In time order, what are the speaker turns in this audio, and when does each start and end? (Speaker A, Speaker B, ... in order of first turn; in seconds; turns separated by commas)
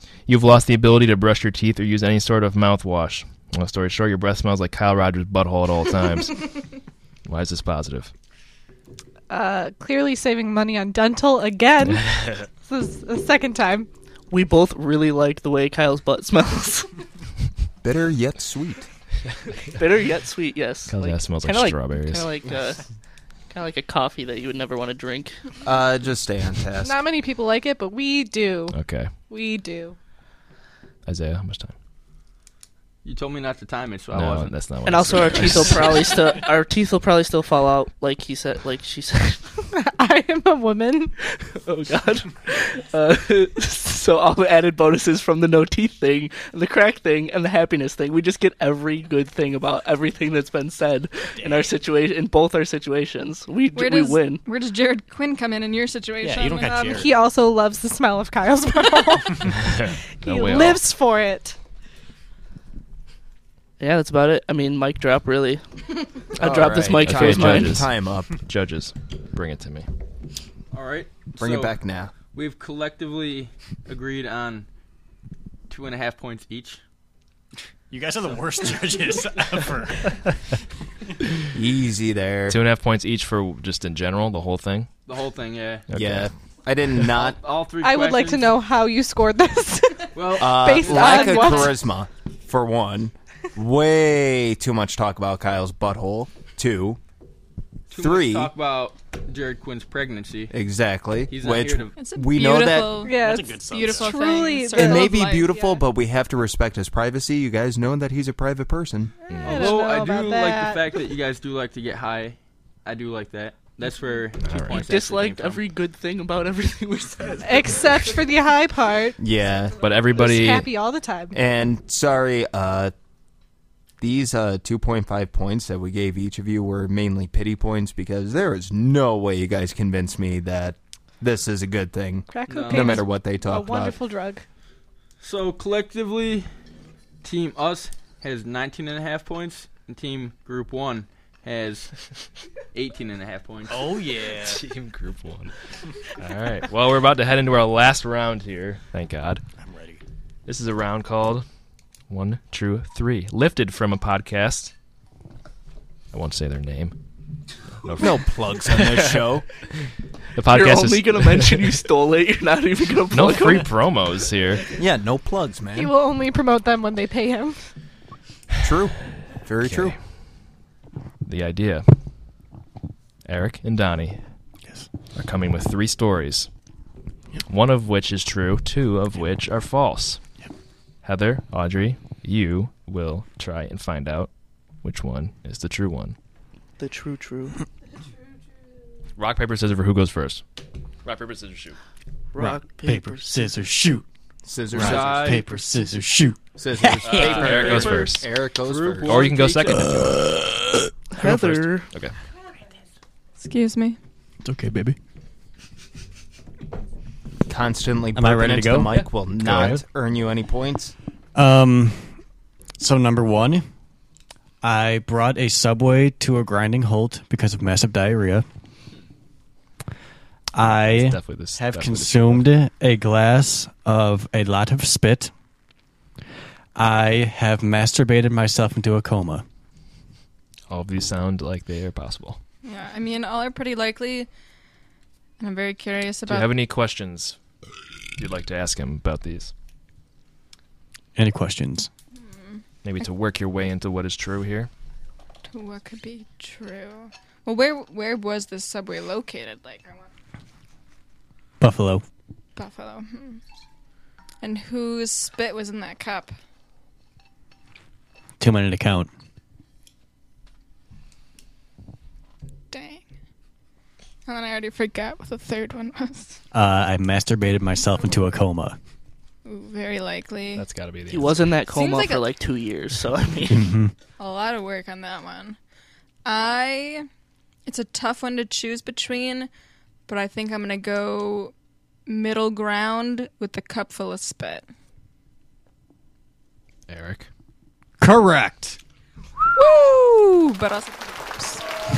Speaker A: 0.3-6.5, Speaker A: 7.2-8.1, Speaker B: 9.3-13.9, Speaker A: 12.0-12.4, Speaker C: 14.3-16.9, Speaker D: 17.8-18.9, Speaker C: 19.7-22.8, Speaker A: 20.9-22.3, Speaker C: 23.5-25.4, Speaker D: 25.6-26.9, Speaker B: 26.8-28.8, Speaker A: 28.7-29.1, Speaker B: 29.3-30.0, Speaker A: 31.1-31.7, Speaker E: 33.0-34.7, Speaker A: 34.1-36.0, Speaker C: 34.8-39.5, Speaker B: 39.7-41.1, Speaker C: 41.2-54.4, Speaker F: 51.4-51.8, Speaker G: 53.7-57.0, Speaker F: 56.2-57.1, Speaker B: 56.6-61.6, Speaker A: 59.6-60.8, Speaker C: 63.8-65.6, Speaker C: 66.3-67.9, Speaker D: 66.3-68.4, Speaker A: 67.0-69.8, Speaker E: 70.7-71.8, Speaker D: 71.3-72.1, Speaker E: 72.3-74.7, Speaker E: 75.7-76.8, Speaker F: 77.9-80.3, Speaker D: 81.5-82.6, Speaker A: 82.5-84.9, Speaker E: 85.1-85.9, Speaker A: 85.9-86.3, Speaker D: 85.9-87.4, Speaker E: 87.2-88.5, Speaker B: 87.8-91.8, Speaker E: 90.1-91.7, Speaker D: 90.4-97.0, Speaker E: 97.9-100.5, Speaker D: 97.9-98.5, Speaker D: 100.5-103.1, Speaker E: 101.3-102.0, Speaker G: 101.9-105.6, Speaker B: 103.0-105.8, Speaker F: 103.1-104.3, Speaker D: 104.7-109.1, Speaker A: 109.3-109.8, Speaker B: 109.3-111.0, Speaker E: 109.5-115.6, Speaker A: 114.4-114.8, Speaker C: 114.7-118.2, Speaker B: 117.4-119.2, Speaker D: 119.2-119.9, Speaker A: 119.8-120.7, Speaker B: 120.1-121.4, Speaker D: 121.3-122.9, Speaker D: 124.0-134.0, Speaker B: 132.3-134.4, Speaker E: 132.5-133.0, Speaker E: 135.2-136.5, Speaker E: 137.2-141.9, Speaker E: 142.7-143.9, Speaker F: 143.7-144.6, Speaker A: 144.4-145.5, Speaker A: 146.2-149.4, Speaker F: 149.6-150.0, Speaker A: 150.5-151.4, Speaker A: 152.1-154.7, Speaker A: 156.1-156.9, Speaker A: 157.8-159.2, Speaker D: 158.0-159.4, Speaker A: 160.3-161.8, Speaker C: 160.4-163.7, Speaker A: 163.1-164.6, Speaker D: 164.8-165.9, Speaker B: 165.7-167.6, Speaker D: 168.6-169.9, Speaker A: 169.6-169.9, Speaker A: 171.2-171.9, Speaker A: 173.2-174.2, Speaker A: 175.2-176.5, Speaker A: 177.5-180.2, Speaker A: 181.0-184.3, Speaker A: 184.8-186.2, Speaker C: 186.8-187.6, Speaker A: 189.2-190.4, Speaker A: 191.0-191.8, Speaker C: 192.3-193.5, Speaker F: 192.4-194.1, Speaker D: 194.4-195.4, Speaker F: 194.7-197.2, Speaker E: 194.7-195.5, Speaker D: 196.6-199.2, Speaker E: 197.0-200.0, Speaker A: 197.1-198.3, Speaker A: 199.0-200.4, Speaker F: 199.8-200.2, Speaker C: 201.1-201.9, Speaker A: 201.2-202.1, Speaker G: 203.4-204.0, Speaker F: 204.4-205.0, Speaker D: 207.5-210.9, Speaker F: 208.2-209.8, Speaker A: 208.9-209.8, Speaker F: 211.3-212.2, Speaker F: 212.8-213.6, Speaker F: 214.6-218.4, Speaker F: 220.5-225.3, Speaker A: 220.6-222.5, Speaker F: 226.8-229.4, Speaker A: 230.7-232.4, Speaker G: 232.6-234.3, Speaker G: 235.4-236.5, Speaker A: 236.3-237.4, Speaker A: 238.2-239.5, Speaker F: 241.2-241.9, Speaker G: 242.1-242.6, Speaker A: 242.8-244.7, Speaker G: 245.5-250.1, Speaker F: 251.6-252.0, Speaker G: 252.6-253.4, Speaker G: 254.4-256.4, Speaker F: 258.4-259.1, Speaker G: 262.7-263.0, Speaker G: 264.2-266.4, Speaker F: 266.5-268.8, Speaker G: 269.4-270.7, Speaker A: 270.6-271.5, Speaker C: 271.1-273.8, Speaker G: 271.7-272.2, Speaker F: 273.5-273.9, Speaker G: 274.2-275.6, Speaker G: 276.2-277.1, Speaker G: 277.6-279.5, Speaker G: 280.1-281.5, Speaker G: 282.1-284.6, Speaker A: 286.9-287.3, Speaker F: 288.0-288.8, Speaker G: 289.5-291.6